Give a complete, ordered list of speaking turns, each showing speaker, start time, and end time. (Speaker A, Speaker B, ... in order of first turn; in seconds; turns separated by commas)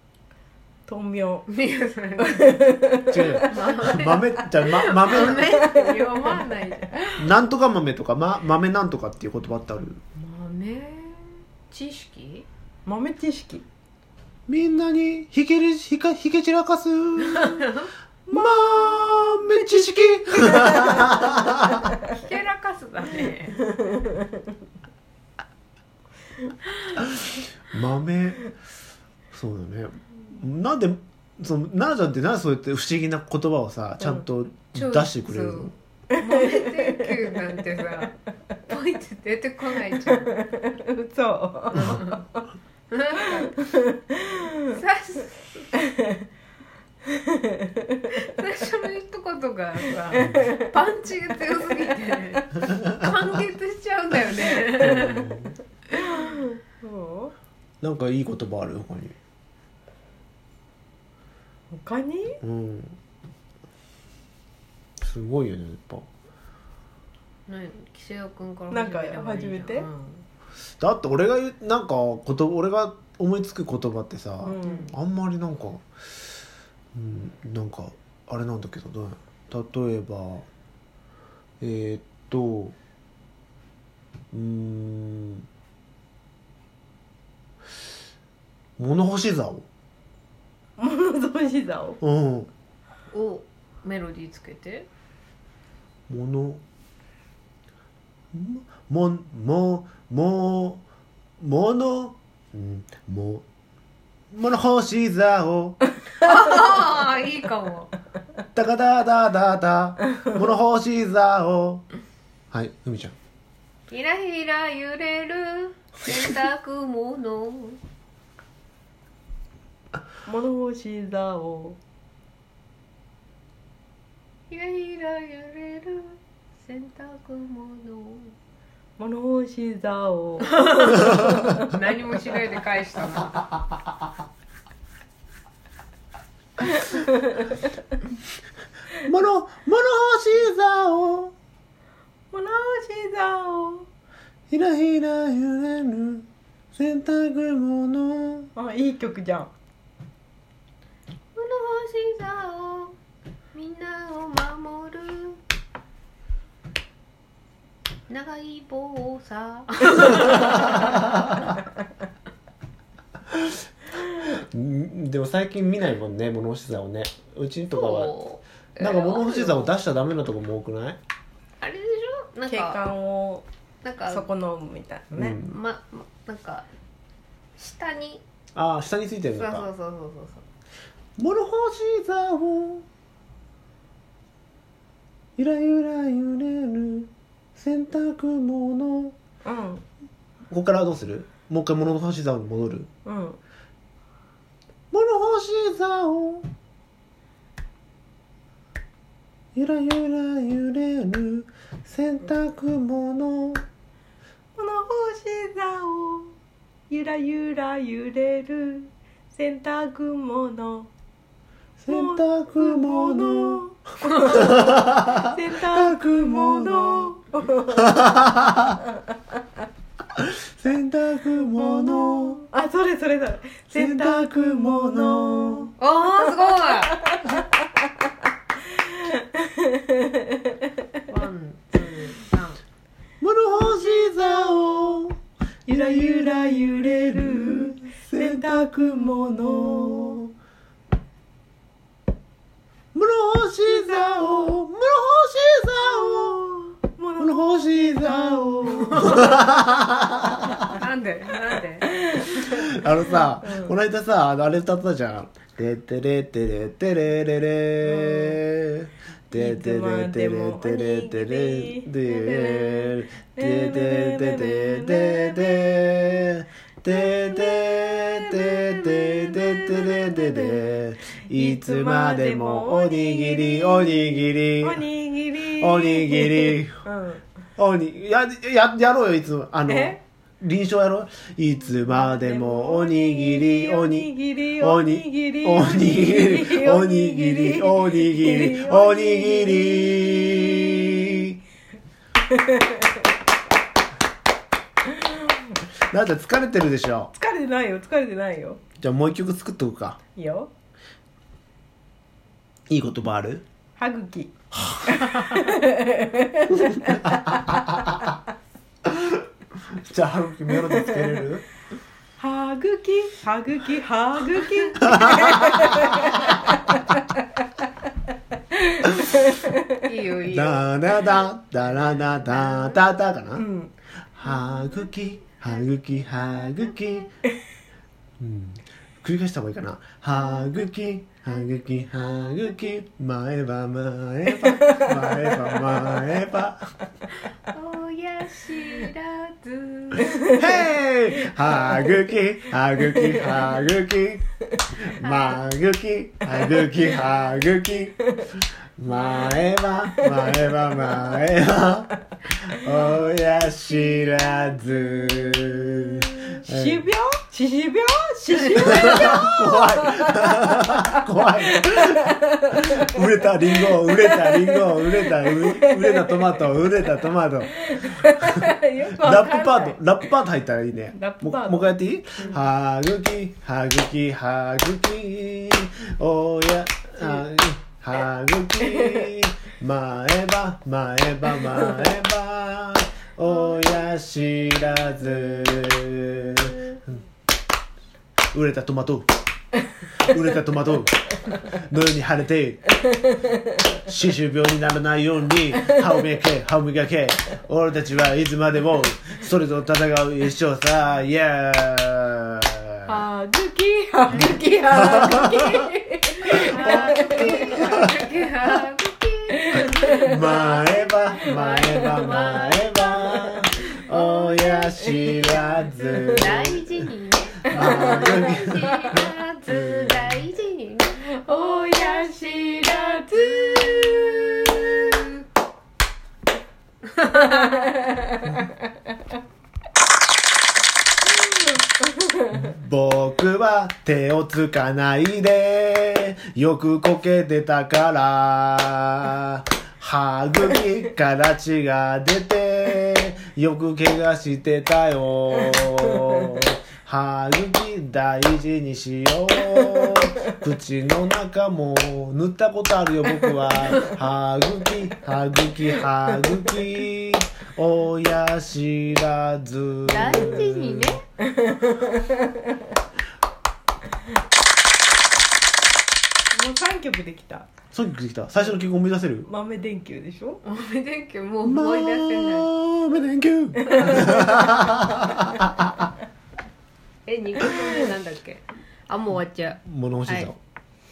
Speaker A: 0.9-1.5, Speaker B: 1.5-2.7, Speaker A: 2.2-3.5, Speaker C: 3.1-5.6, Speaker B: 3.5-7.2, Speaker A: 5.1-6.4, Speaker C: 7.2-10.0, Speaker B: 10.2-12.4, Speaker A: 12.8-13.6, Speaker C: 14.5-17.7, Speaker B: 17.2-17.9, Speaker A: 18.3-22.0, Speaker C: 18.3-21.9, Speaker B: 22.1-23.6, Speaker A: 23.7-24.3, Speaker C: 27.7-28.5, Speaker C: 29.3-35.7, Speaker B: 34.7-40.4, Speaker A: 36.2-37.4, Speaker A: 40.0-42.4, Speaker B: 41.7-42.2, Speaker B: 42.9-43.5, Speaker A: 43.5-44.5, Speaker B: 44.7-45.7, Speaker A: 46.0-46.2, Speaker A: 47.1-48.0, Speaker B: 48.1-55.3, Speaker A: 50.1-50.6, Speaker C: 54.7-55.6, Speaker A: 55.9-57.3, Speaker C: 57.8-59.1, Speaker A: 61.7-62.4, Speaker C: 62.4-63.0, Speaker C: 65.0-66.1, Speaker B: 67.5-70.2, Speaker A: 68.7-69.9, Speaker C: 70.8-75.8, Speaker A: 74.4-74.9, Speaker C: 76.9-80.5, Speaker C: 81.6-82.8, Speaker C: 84.3-85.5, Speaker C: 88.8-89.7, Speaker A: 90.8-92.0, Speaker C: 92.0-92.5, Speaker B: 93.1-94.9, Speaker C: 96.1-96.6, Speaker C: 98.3-100.8, Speaker C: 101.4-103.4, Speaker C: 104.3-105.8, Speaker B: 106.2-107.9, Speaker C: 108.5-111.8, Speaker C: 112.5-113.2, Speaker B: 113.9-117.8, Speaker A: 120.2-121.8, Speaker B: 124.5-128.3, Speaker A: 129.0-131.7, Speaker B: 130.4-133.6, Speaker A: 136.8-137.2, Speaker C: 139.0-141.3, Speaker A: 142.3-143.9, Speaker C: 144.5-148.5, Speaker A: 148.5-149.5, Speaker B: 151.3-152.9, Speaker B: 153.5-155.4, Speaker B: 158.1-161.0, Speaker C: 164.1-168.1, Speaker B: 167.7-169.8, Speaker C: 168.8-171.0, Speaker B: 171.6-172.8, Speaker A: 172.5-173.4, Speaker B: 173.8-174.3, Speaker A: 174.1-175.4, Speaker C: 175.1-175.5, Speaker B: 175.3-176.7, Speaker B: 177.6-178.2, Speaker C: 178.5-179.7, Speaker B: 179.3-180.4, Speaker C: 181.2-182.8, Speaker C: 185.4-189.1, Speaker A: 189.4-189.8, Speaker C: 190.5-192.9, Speaker A: 193.0-193.4, Speaker C: 194.9-196.5, Speaker C: 199.5-203.6, Speaker A: 204.6-206.3, Speaker A: 206.9-210.9, Speaker C: 211.8-213.6, Speaker A: 211.9-218.3, Speaker C: 214.2-217.1, Speaker C: 217.7-218.8, Speaker C: 220.2-222.4, Speaker A: 221.6-227.9, Speaker C: 223.7-225.7, Speaker B: 225.8-227.0, Speaker A: 228.7-230.6, Speaker B: 231.1-232.6, Speaker C: 233.2-235.2, Speaker A: 233.7-234.1, Speaker A: 235.7-240.2, Speaker C: 235.7-240.3, Speaker C: 242.9-246.6, Speaker A: 243.7-244.5, Speaker A: 245.8-249.4, Speaker C: 247.2-250.6, Speaker B: 250.7-252.3, Speaker A: 251.8-253.8, Speaker C: 252.4-274.9, Speaker A: 257.8-258.4, Speaker A: 259.3-266.1, Speaker A: 266.9-277.2, Speaker C: 275.4-276.8, Speaker C: 277.6-291.4, Speaker A: 279.7-280.0, Speaker A: 281.9-291.2, Speaker A: 292.2-293.0, Speaker C: 295.9-297.1, Speaker A: 297.1-298.6, Speaker C: 298.8-300.0, Speaker A: 300.1-300.5, Speaker C: 302.7-303.4, Speaker A: 303.8-304.3, Speaker C: 304.6-305.5, Speaker A: 304.9-307.8, Speaker C: 306.6-307.6, Speaker C: 308.9-311.5, Speaker A: 310.8-311.1, Speaker A: 312.2-317.4, Speaker C: 314.9-316.3, Speaker A: 318.5-319.8, Speaker B: 319.8-320.7, Speaker C: 320.3-323.4, Speaker B: 322.0-322.9, Speaker A: 323.4-323.7, Speaker C: 324.1-327.1, Speaker B: 324.2-327.1, Speaker C: 328.2-336.7, Speaker B: 331.6-332.6, Speaker A: 334.4-335.4, Speaker B: 337.5-340.3, Speaker C: 340.3-344.2, Speaker A: 343.0-343.6, Speaker C: 344.8-348.2, Speaker B: 345.0-345.5, Speaker A: 346.4-346.7, Speaker C: 348.8-352.0, Speaker B: 348.9-349.5, Speaker A: 349.9-351.1, Speaker C: 352.5-356.9, Speaker A: 356.4-362.9, Speaker C: 358.5-386.8, Speaker A: 363.5-366.2, Speaker A: 367.6-369.8, Speaker A: 370.9-371.8, Speaker A: 378.7-379.0, Speaker C: 388.3-389.1, Speaker C: 390.0-392.6, Speaker C: 393.8-402.9, Speaker A: 402.9-407.9, Speaker C: 404.1-405.7, Speaker C: 406.3-407.9, Speaker B: 406.3-413.4, Speaker A: 409.4-410.1, Speaker C: 410.0-416.8, Speaker A: 414.0-416.1, Speaker B: 416.0-425.1, Speaker C: 417.5-420.2, Speaker A: 417.5-418.4, Speaker A: 421.0-424.9, Speaker B: 427.0-427.5, Speaker A: 427.1-428.5, Speaker A: 431.1-432.4, Speaker C: 432.3-461.0, Speaker B: 459.9-461.0, Speaker A: 461.3-462.3, Speaker A: 466.3-467.5, Speaker C: 467.7-469.3, Speaker A: 469.2-470.4, Speaker B: 470.4-472.5, Speaker C: 471.4-475.8, Speaker A: 473.6-474.4, Speaker B: 477.1-480.3, Speaker C: 479.6-480.4